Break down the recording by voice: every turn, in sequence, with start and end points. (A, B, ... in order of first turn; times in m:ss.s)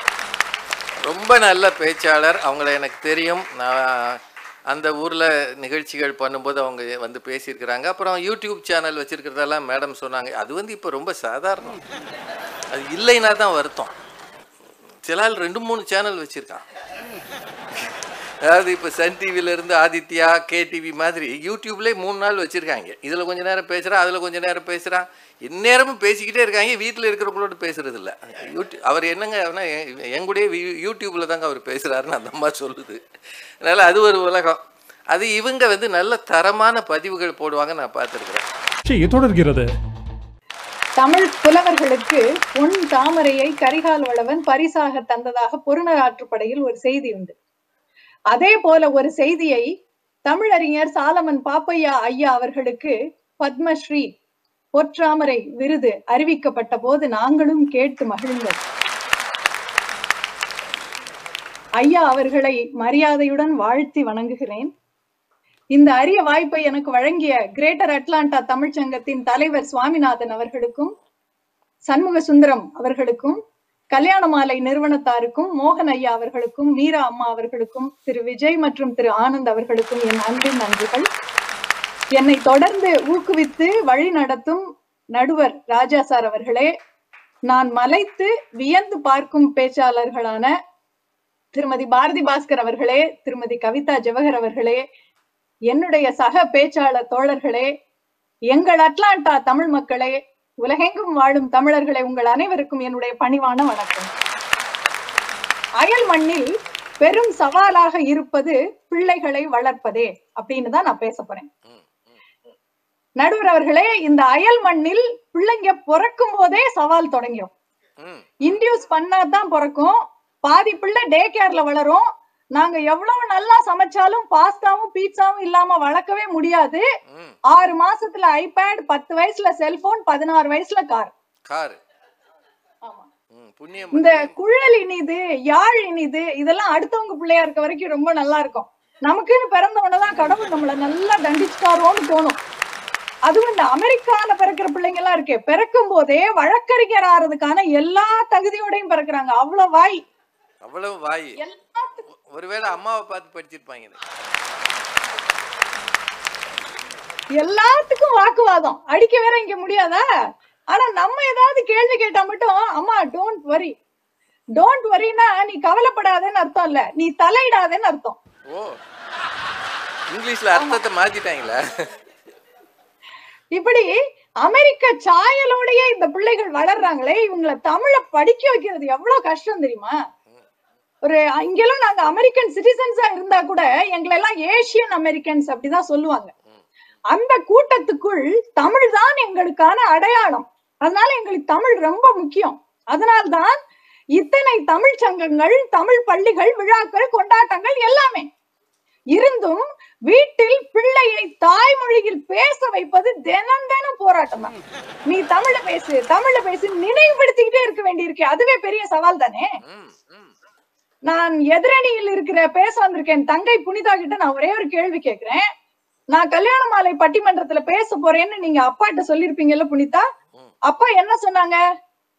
0:01.0-0:04.2 A
0:04.7-0:11.8 A
0:12.7-0:13.9 A
0:15.1-0:16.6 A
0:18.4-0:33.0 A
0:33.6-0:34.6 A
0:35.1-0:38.4 A
0:41.0-0:47.4 B
0:48.3-0:49.7 B
0:50.3-0:54.1 B
0:54.8-0:58.6 B
1:01.8-1:04.7 B
1:05.8-1:10.9 B
1:11.9-1:13.4 B
1:13.9-1:21.1 B
1:22.2-1:24.6 B
1:25.2-1:26.7 B
1:27.5-1:30.5 B
1:31.6-1:34.8 B
1:35.7-1:37.7 B
1:38.5-1:44.1 B
1:45.8-1:46.5 B
1:47.0-1:51.5 B
1:51.7-1:52.1 A
1:53.2-1:57.5 B
1:58.0-1:58.5 A
1:58.4-2:02.0 B
2:02.6-2:06.8 B
2:07.1-2:07.4 A
2:07.5-2:11.1 B
2:11.5-2:11.8 A
2:13.3-2:14.3 A
2:13.9-2:22.4 B
2:23.3-2:30.0 B
2:30.6-2:31.4 A
2:31.4-2:32.1 B
2:32.3-2:34.0 A
2:37.4-2:40.0 B
2:40.7-2:43.8 B
2:44.6-2:48.2 B
2:50.1-2:51.6 A
2:50.6-2:50.8 B
2:53.6-2:53.9 B
2:54.4-3:00.0 B
3:01.0-3:06.3 B
3:07.1-3:13.6 B
3:14.2-3:18.3 B
3:19.2-3:24.5 B
3:25.1-3:29.5 B
3:29.6-3:30.3 A
3:31.1-3:35.4 B
3:36.1-3:40.1 B
3:40.7-3:41.6 B